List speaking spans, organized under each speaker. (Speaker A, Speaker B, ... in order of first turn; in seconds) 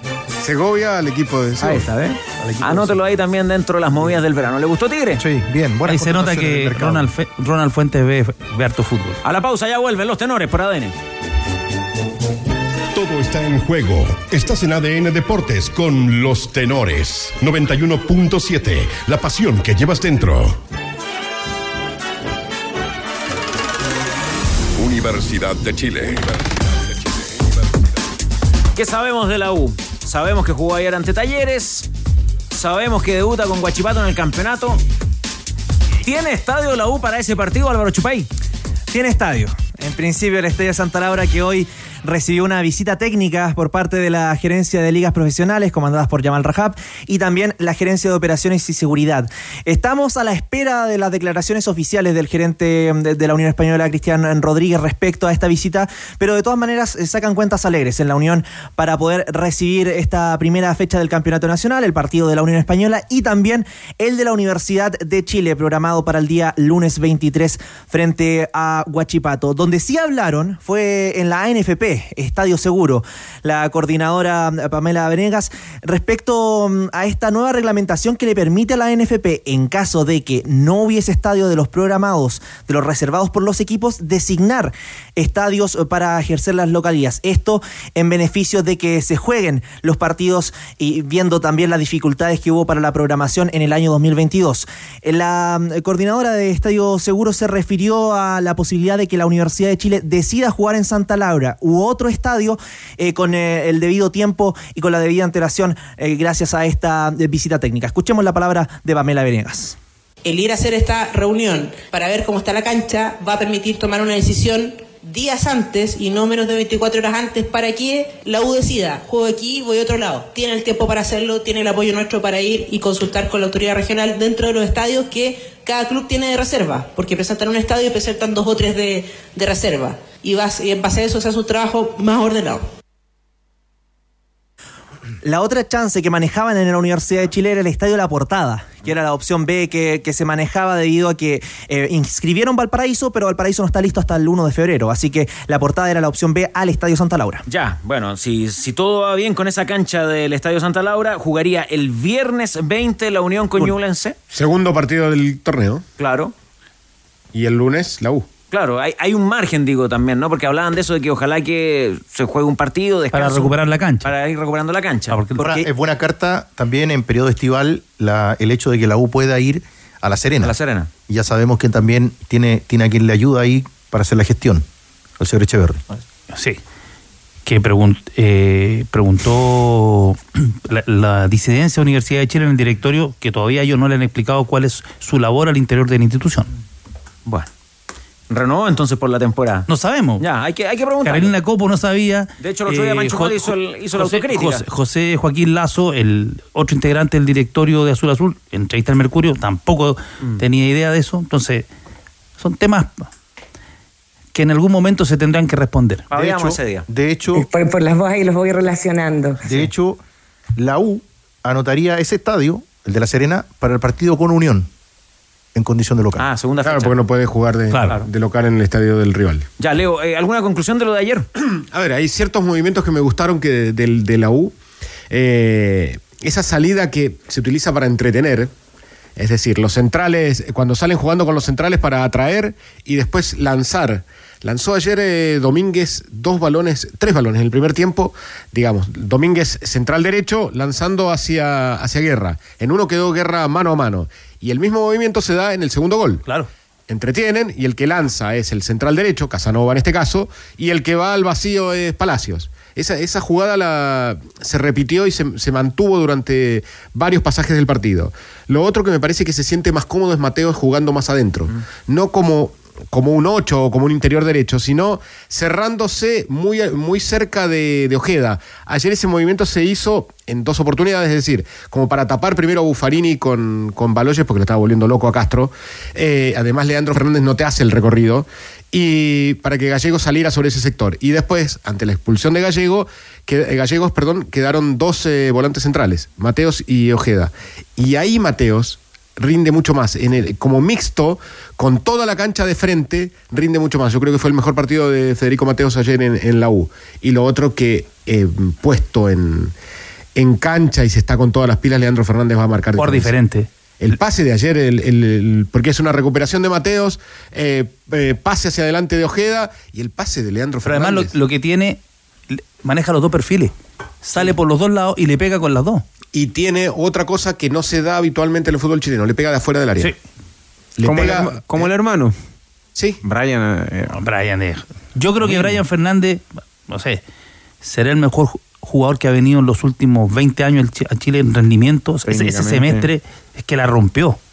Speaker A: 0.4-1.9, 154.3-155.8, 157.3-158.3, 216.6-219.4, 221.5-224.5, 225.1-228.5, 229.2-246.2, 246.9-299.5, 300.2-303.2, 303.8-311.1, 316.1-319.9, 320.8-321.7
Speaker B: 1.6-5.2, 9.2-10.9, 28.8-31.9, 32.5-34.8, 36.0-38.3, 147.5-154.2, 156.0-156.3, 158.5-165.2, 170.4-170.9, 188.3-189.7, 190.2-191.3, 192.4-194.6, 206.1-206.9, 216.2-217.0, 219.6-221.3
Speaker C: 2.4-2.9, 5.2-7.1, 165.4-170.5, 171.1-174.7, 175.2-175.8, 206.1-207.5, 209.4-210.0, 210.6-214.7, 215.6-216.2
Speaker D: 5.9-9.2, 163.1-164.1, 165.1-165.6, 176.3-176.6, 177.5-186.5, 189.7-190.2, 191.0-201.7, 202.4-203.1, 204.3-206.1, 217.7-218.0, 302.8-303.5, 310.6-311.8, 312.3-315.8, 323.9-327.0, 327.6-334.2
Speaker E: 12.9-20.6, 24.8-27.8
Speaker F: 38.9-109.8, 135.2-147.4
Speaker G: 110.2-132.7
Speaker H: 207.3-209.6
Speaker I: 320.8-322.1, 323.0-323.9, 325.2-325.6, 332.1-332.9